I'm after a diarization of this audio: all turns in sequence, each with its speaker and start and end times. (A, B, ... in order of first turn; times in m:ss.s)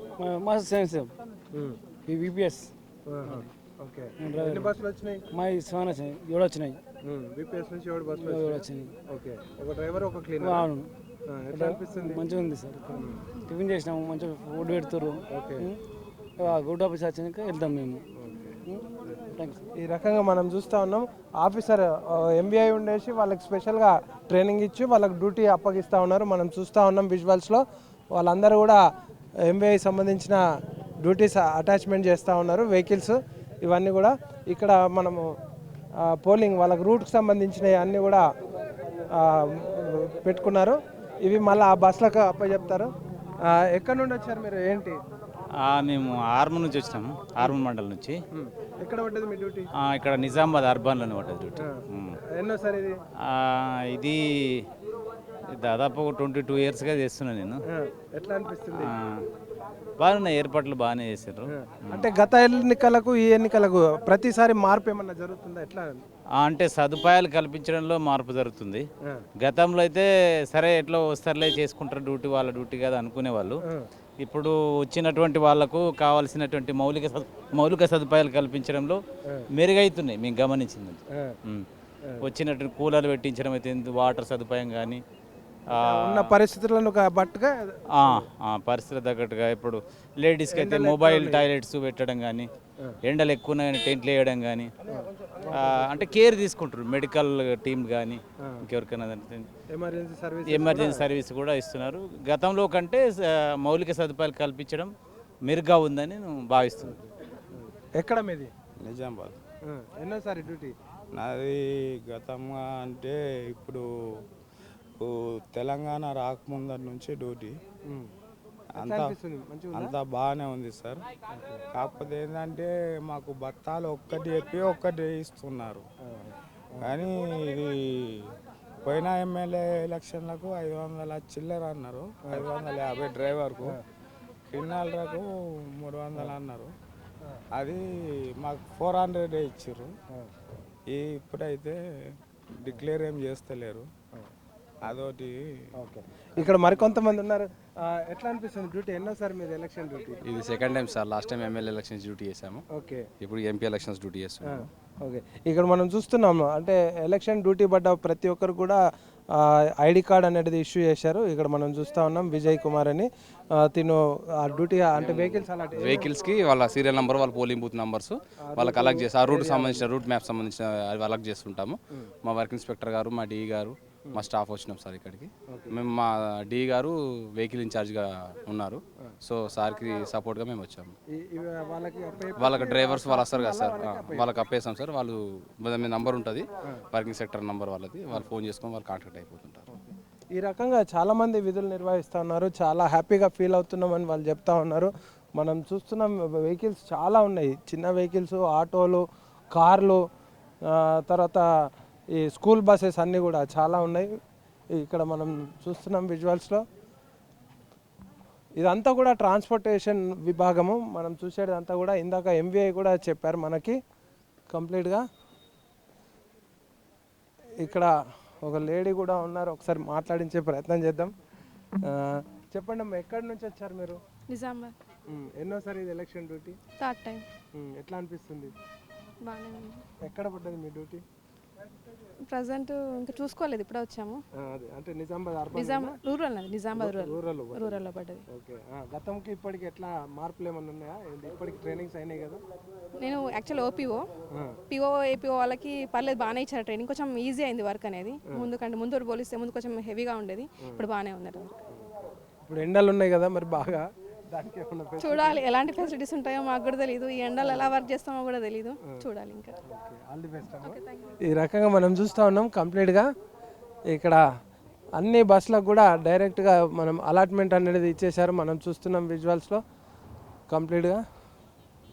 0:00.2-0:01.1 A
0:02.1-0:02.7 A
0:03.1-0:05.2 B
0:04.2-0:04.7 A
0:05.3-0:06.8 A
0:07.1-0:10.7 B
0:08.2-0:08.9 A
0:10.4-0:10.9 A
0:11.3-0:12.2 B
0:11.5-0:15.8 A
0:12.9-0:13.2 B
0:15.3-0:15.7 B
0:16.4-0:18.0 A
0:18.2-0:18.6 B
0:18.7-0:19.6 A
0:19.8-0:27.6 B
0:28.1-0:28.8 B
0:29.5-0:30.4 B
0:31.0-0:35.3 B
0:36.0-0:38.2 B
0:39.1-0:42.9 B
0:43.5-0:45.0 B
0:45.6-0:48.2 C
0:48.3-0:49.7 B
0:49.8-0:52.2 C
0:51.6-0:53.0 B
0:53.2-0:54.6 C
0:55.5-0:57.6 C
0:57.7-0:58.9 B
0:58.7-0:59.2 C
1:00.0-1:02.1 C
1:01.5-1:06.0 B
1:06.4-1:08.8 C
1:09.4-1:13.6 C
1:14.2-1:19.0 C
1:19.6-1:21.7 C
1:22.2-1:25.0 C
1:25.7-1:28.2 B
1:25.7-1:26.3 C
1:27.9-1:32.5 C
1:30.5-1:31.4 B
1:33.0-1:34.7 C
1:34.8-1:36.2 B
1:35.5-1:39.5 C
1:39.7-1:41.1 B
1:40.4-1:44.9 C
1:45.5-1:47.0 C
1:46.8-1:48.5 B
1:48.8-1:49.4 D
1:49.7-1:50.7 B
1:51.2-1:53.8 D
1:55.0-1:57.6 D
1:58.8-1:59.2 D
1:58.8-1:59.9 B
1:59.7-2:01.0 D
2:01.3-2:01.6 B
2:01.7-2:05.9 D
2:06.0-2:06.9 B
2:06.8-2:08.3 D
2:08.8-2:13.8 D
2:14.5-2:16.7 D
2:17.6-2:17.8 D
2:18.4-2:19.9 D
2:20.9-2:21.8 D
2:22.6-2:23.8 D
2:24.8-2:25.4 D
2:25.8-2:30.2 B
2:30.2-2:32.6 E
2:32.7-2:33.1 B
2:33.2-2:34.6 E
2:34.4-2:38.8 B
2:39.4-2:46.1 B
2:45.0-3:00.9 E
2:48.4-2:49.9 B
2:55.5-2:55.8 B
3:01.1-3:04.3 B
3:02.4-3:09.6 E
3:09.7-3:19.0 B
3:19.5-3:20.0 B
3:20.7-3:21.4 B
3:22.1-3:24.1 B
3:24.7-3:26.6 B
3:28.6-3:33.8 B
3:34.5-3:35.0 B
3:37.6-3:37.9 B
3:38.4-3:41.1 B
3:41.8-3:44.0 B
3:44.3-3:44.7 F
3:45.1-3:46.6 B
3:46.8-3:47.2 F
3:47.6-3:48.5 B
3:49.2-3:49.8 F
3:50.0-3:51.0 B
3:52.3-3:54.2 F
3:54.4-3:56.0 B
3:55.5-3:58.2 F
3:56.8-4:02.4 B
4:03.0-4:04.0 F
4:04.7-4:11.6 F
4:12.4-4:15.5 B
4:15.0-4:19.5 F
4:17.4-4:17.7 B
4:19.6-4:23.1 B
4:20.6-4:21.2 F
4:23.9-4:24.2 B
4:25.0-4:29.6 B
4:30.5-4:31.0 B